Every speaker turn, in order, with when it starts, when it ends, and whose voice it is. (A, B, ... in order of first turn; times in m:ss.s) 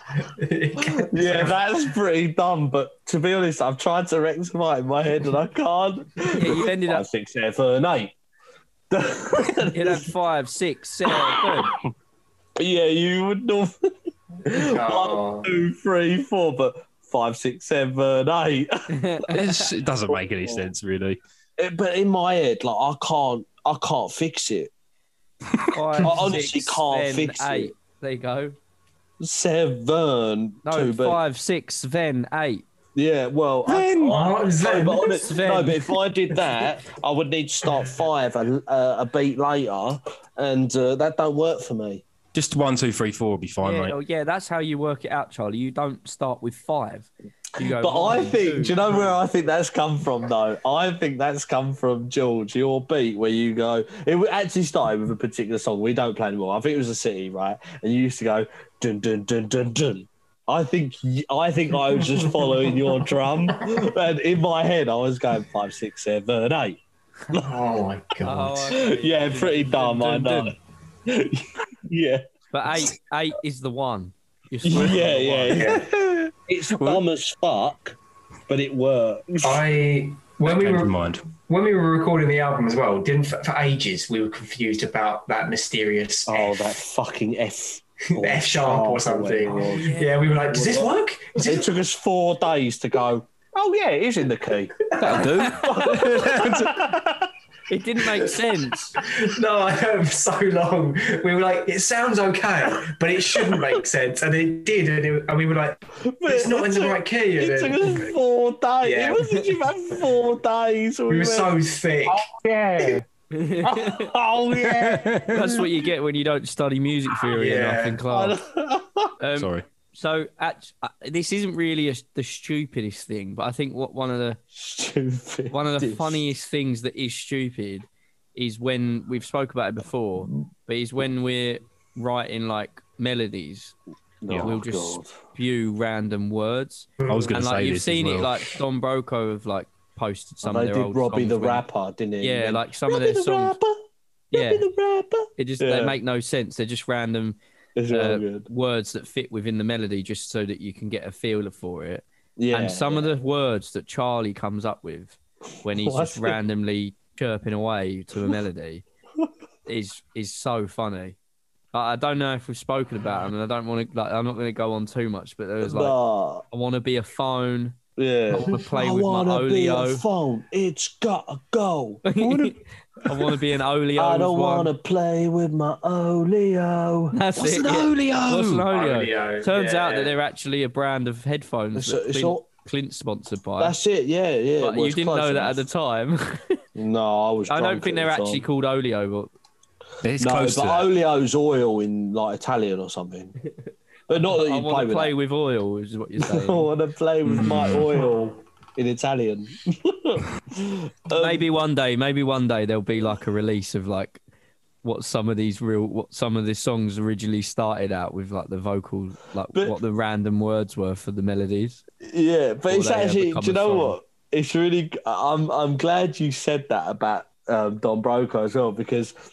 0:00.2-0:01.6 A
0:00.8-0:08.1 B
0:06.3-0:07.0 C
0:08.9-0:10.1 B
0:09.7-0:11.7 C
0:11.0-0:11.8 B
0:12.6-0:19.3 B
0:14.4-0:15.5 A
0:18.9-0:19.5 C
0:19.3-0:21.2 D
0:20.1-0:20.7 B
0:21.6-0:24.7 B
0:25.7-0:28.6 C
0:26.0-0:27.7 B
0:29.2-0:31.2 B
0:30.6-0:32.6 C
0:33.0-0:42.0 B
0:33.7-0:34.1 D
0:34.1-0:35.2 A
0:35.0-0:35.8 C
0:42.3-0:44.0 D
0:43.6-0:49.1 C
0:47.6-1:07.6 B
1:07.3-1:08.8 A
1:08.2-1:10.5 C
1:08.7-1:10.6 B
1:11.1-1:12.2 B
1:12.5-1:15.6 C
1:14.6-1:19.6 B
1:15.5-1:15.9 A
1:16.7-1:17.0 D
1:19.4-1:26.7 A
1:20.4-1:21.2 D
1:26.3-1:30.0 B
1:28.1-1:31.7 A
1:29.6-1:30.1 C
1:30.5-1:37.3 B
1:34.9-1:35.3 A
1:35.0-1:37.0 D
1:37.7-1:38.9 C
1:39.0-1:48.2 A
1:43.3-1:43.8 B
1:46.0-1:53.0 B
1:48.8-1:49.4 A
1:51.1-1:52.3 A
1:53.3-1:54.1 C
1:53.6-1:55.8 B
1:54.7-1:55.5 D
1:55.1-1:58.4 C
1:57.3-1:58.0 A
1:58.1-1:59.1 B
1:59.2-2:04.4 C
1:59.4-1:59.7 D
2:04.6-2:06.2 B
2:05.5-2:13.8 C
2:14.2-2:15.2 B
2:14.4-2:21.6 C
2:17.0-2:17.4 A
2:17.1-2:18.5 D
2:20.4-2:23.8 B
2:22.2-2:23.6 C
2:24.3-2:24.7 C
2:24.3-2:26.0 B
2:25.4-2:27.4 C
2:27.8-2:28.5 B
2:27.9-2:38.8 C
2:32.4-2:33.1 B
2:35.7-2:36.4 B
2:39.7-2:41.2 C
2:41.7-2:46.0 C
2:45.6-2:46.4 B
2:46.5-2:47.8 C
2:48.0-2:52.0 B
2:48.3-2:50.0 C
2:52.1-2:54.7 C
2:52.2-2:52.6 D
2:54.0-2:57.2 B
2:57.1-3:03.8 C
2:57.4-2:58.7 D
2:58.7-3:00.2 A
3:01.8-3:02.5 B
3:03.6-3:05.7 B
3:04.6-3:06.6 C
3:06.8-3:08.4 B
3:07.5-3:09.3 C
3:10.0-3:10.9 D
3:10.2-3:13.4 B
3:14.1-3:15.2 B
3:14.2-3:16.7 C
3:16.2-3:21.5 B
3:17.2-3:18.0 D
3:21.1-3:24.2 C
3:24.8-3:31.8 C
3:32.0-3:39.1 B
3:32.7-3:34.0 C